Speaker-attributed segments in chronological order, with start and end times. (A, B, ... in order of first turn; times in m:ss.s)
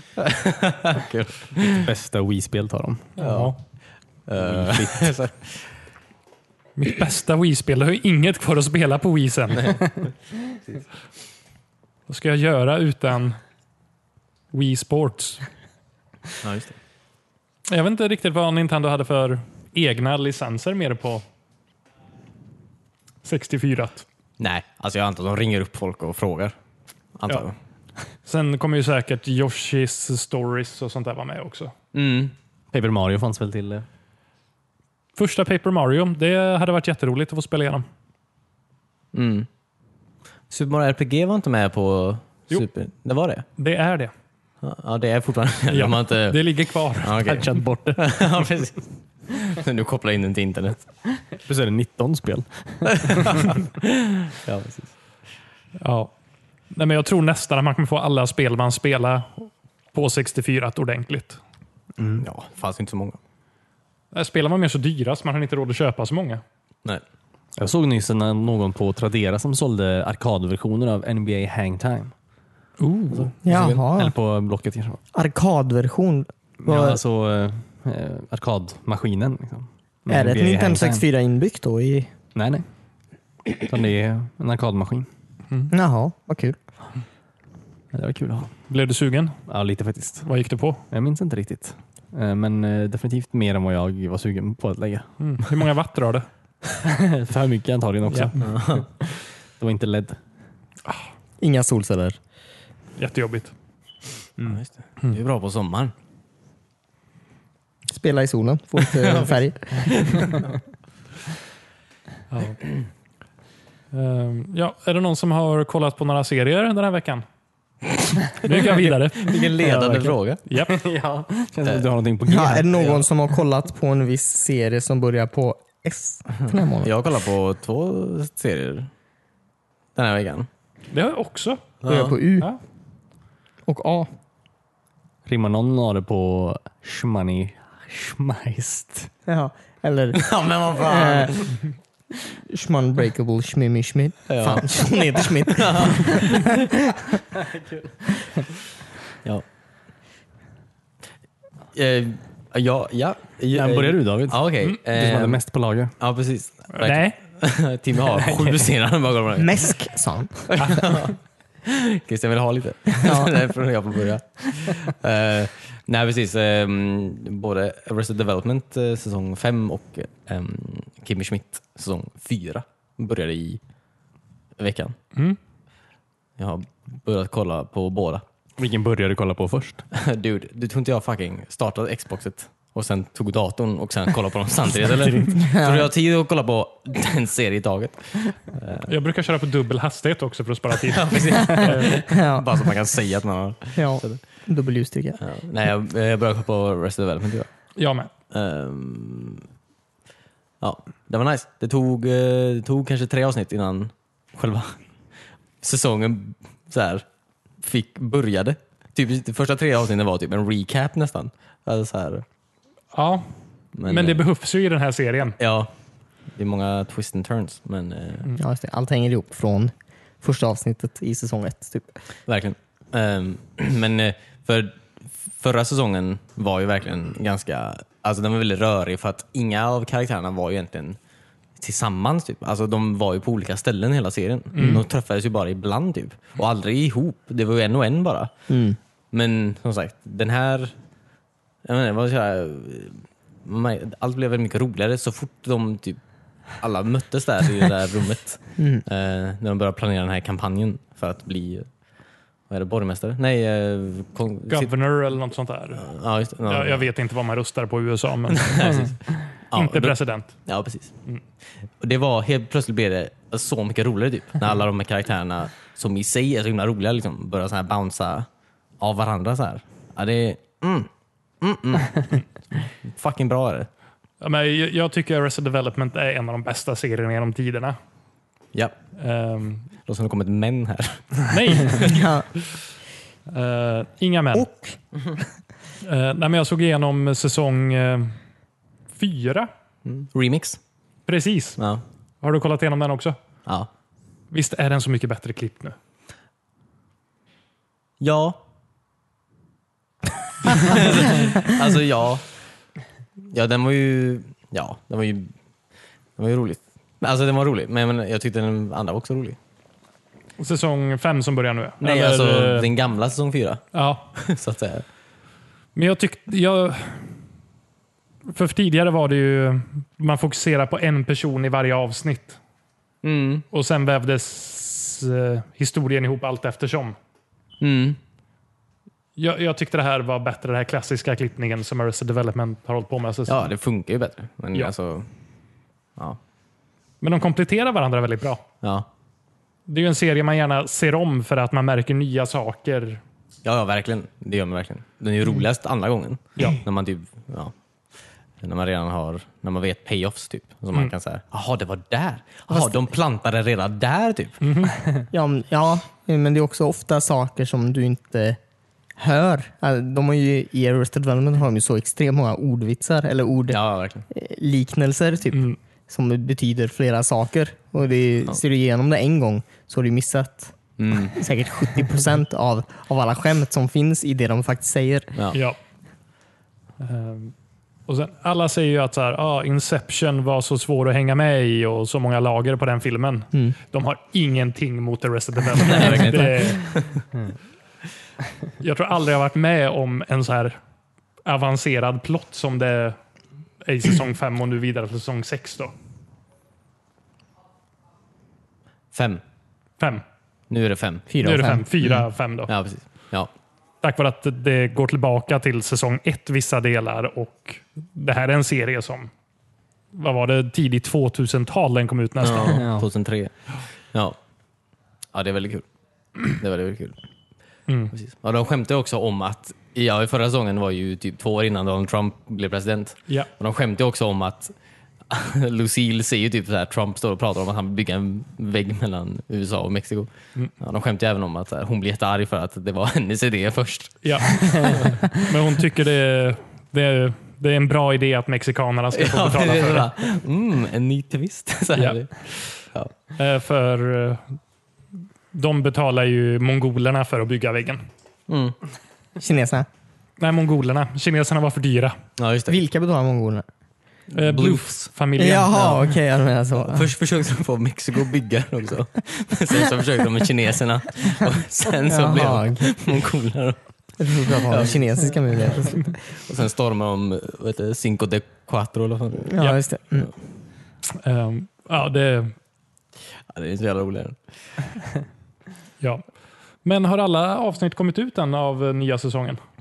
0:00.2-0:01.9 A
0:01.7-0:03.1 B
0:03.2-0:03.5 C
0:03.2-0:03.6 A
0:04.2-0:05.7 A
0:04.4-0:05.1 B
0:06.8-0:10.0 C
0:12.1-0:13.4 C
0:14.5-0:15.4 C
0:16.4-0:16.8 A
0:17.7-0:21.2 C
0:23.2-0:24.0 C
0:24.4-0:26.5 A
0:27.2-0:27.6 A
0:28.2-0:31.7 C
0:31.9-0:32.3 A
0:32.7-0:33.8 B
0:35.2-0:37.8 C
0:39.1-0:39.5 A
0:40.5-0:43.4 A
0:43.6-0:44.1 C
0:44.6-0:50.9 A
0:45.7-0:47.3 C
0:47.2-0:48.2 B
0:51.4-0:53.4 B
0:53.0-0:54.9 A
0:55.8-0:56.1 C
0:56.7-1:01.4 C
1:02.0-1:02.2 B
1:02.2-1:03.2 A
1:04.1-1:06.4 C
1:07.6-1:12.1 B
1:12.8-1:13.3 C
1:13.1-1:13.8 A
1:13.4-1:14.1 D
1:13.9-1:15.0 B
1:15.1-1:17.0 D
1:16.6-1:21.0 B
1:20.1-1:22.1 D
1:22.3-1:22.6 B
1:23.6-1:25.1 B
1:25.7-1:26.6 D
1:27.9-1:28.5 B
1:28.7-1:29.4 C
1:29.5-1:30.3 B
1:30.2-1:30.8 C
1:30.9-1:35.1 B
1:35.2-1:36.3 C
1:36.8-1:40.2 B
1:38.1-1:38.4 C
1:38.4-1:38.8 A
1:41.4-1:42.2 D
1:43.0-1:43.5 C
1:44.4-1:45.9 A
1:47.9-1:50.0 D
1:49.0-1:50.4 A
1:52.3-1:52.6 C
1:53.9-1:57.2 C
1:58.4-2:00.7 C
1:58.4-2:00.4 A
2:00.7-2:03.0 B
2:02.3-2:06.9 D
2:06.8-2:08.9 A
2:10.0-2:10.5 A
2:10.9-2:11.6 C
2:11.8-2:12.2 A
2:11.8-2:12.5 D
2:13.7-2:14.1 D
2:15.2-2:19.1 B
2:19.3-2:20.2 D
2:20.2-2:21.6 A
2:20.8-2:21.4 D
2:22.3-2:27.0 D
2:24.3-2:26.6 A
2:27.4-2:27.9 B
2:31.7-2:35.4 A
2:33.5-2:35.9 B
2:36.0-2:39.7 A
2:36.7-2:37.2 C
2:38.1-2:38.6 B
2:39.4-2:40.5 D
2:40.5-2:53.6 A
2:40.6-2:41.0 C
2:42.9-2:43.3 D
2:54.6-2:55.0 A
2:56.4-2:58.2 A
2:58.6-2:59.8 B
2:59.9-3:08.9 A
3:05.4-3:05.9 D
3:08.9-3:12.1 C
3:10.8-3:14.2 A
3:12.1-3:12.4 D
3:13.7-3:15.2 D
3:15.2-3:17.5 A
3:17.8-3:18.1 C
3:18.3-3:19.4 A
3:20.6-3:24.8 A
3:25.6-3:27.0 A
3:27.6-3:32.2 A
3:32.9-3:33.3 C
3:33.8-3:34.2 A
3:33.8-3:35.4 C
3:35.4-3:35.7 A
3:36.3-3:38.3 A
3:38.4-3:42.0 D
3:42.3-3:51.0 A
3:51.6-3:58.3 A
3:54.5-3:54.8 C
3:58.5-3:58.8 D
3:59.1-4:00.7 A
4:01.6-4:06.0 A
4:06.6-4:11.7 A
4:08.6-4:08.8 D
4:12.5-4:14.7 A
4:14.5-4:18.9 C
4:15.8-4:16.8 A
4:18.3-4:19.0 A
4:19.5-4:20.9 A
4:19.5-4:20.4 C
4:21.8-4:28.3 A
4:28.8-4:30.9 A
4:31.4-4:33.7 A
4:34.2-4:37.8 C
4:39.0-4:39.6 C
4:39.8-4:42.0 A
4:41.3-4:42.0 C
4:41.8-4:42.3 D
4:43.3-4:44.5 C
4:44.3-4:44.7 D
4:45.8-4:48.2 C
4:48.9-4:49.5 C
4:49.8-4:50.6 A
4:51.1-4:51.6 C
4:52.2-4:53.2 C
4:54.3-4:55.8 C
4:58.0-4:58.4 A
5:00.4-5:02.3 A
5:03.3-5:05.3 A
5:06.2-5:09.4 A
5:10.4-5:12.7 C
5:11.8-5:13.6 A
5:13.7-5:14.1 C
5:14.1-5:14.8 A
5:15.7-5:17.1 C
5:18.3-5:22.4 C
5:23.0-5:23.4 A
5:23.5-5:27.0 C
5:27.6-5:28.0 A
5:29.2-5:33.5 C
5:33.3-5:35.1 A
5:37.0-5:38.4 C
5:38.6-5:38.9 A
5:39.7-5:43.0 C
5:43.4-5:47.5 A
5:48.4-5:54.4 A
5:52.5-5:52.8 D
5:54.4-5:54.8 C
5:55.1-5:58.4 D
5:59.0-6:03.6 D
6:03.5-6:04.0 A
6:04.1-6:10.5 D
6:10.8-6:11.2 A
6:11.1-6:15.1 D
6:16.8-6:17.3 C
6:17.9-6:26.7 C
6:25.6-6:27.0 A
6:28.6-6:30.6 C
6:31.2-6:33.0 C
6:33.6-6:35.7 C
6:38.9-6:39.2 A
6:40.5-6:41.1 A
6:41.1-6:41.7 D
6:41.2-6:42.5 C
6:42.5-6:43.3 A
6:43.8-6:49.1 C
6:49.9-6:52.6 C
6:52.2-6:53.3 A
6:52.5-6:52.8 B
6:55.1-6:55.6 A
6:56.2-6:57.0 A
6:57.9-7:04.5 A
7:05.1-7:15.2 A
7:14.0-7:19.9 C
7:18.9-7:22.9 A
7:23.2-7:24.2 C
7:25.3-7:27.8 C
7:28.3-7:28.6 A
7:29.2-7:29.7 D
7:30.2-7:32.0 C
7:32.2-7:32.6 A
7:32.5-7:33.4 D
7:34.1-7:34.9 A
7:34.1-7:35.9 C
7:35.2-7:36.9 D
7:36.6-7:43.6 A
7:41.9-7:42.7 D
7:44.0-7:45.9 D
7:44.2-7:49.3 A
7:49.2-7:50.1 D
7:50.9-7:52.3 C
7:53.3-7:54.2 A
7:56.6-7:59.4 C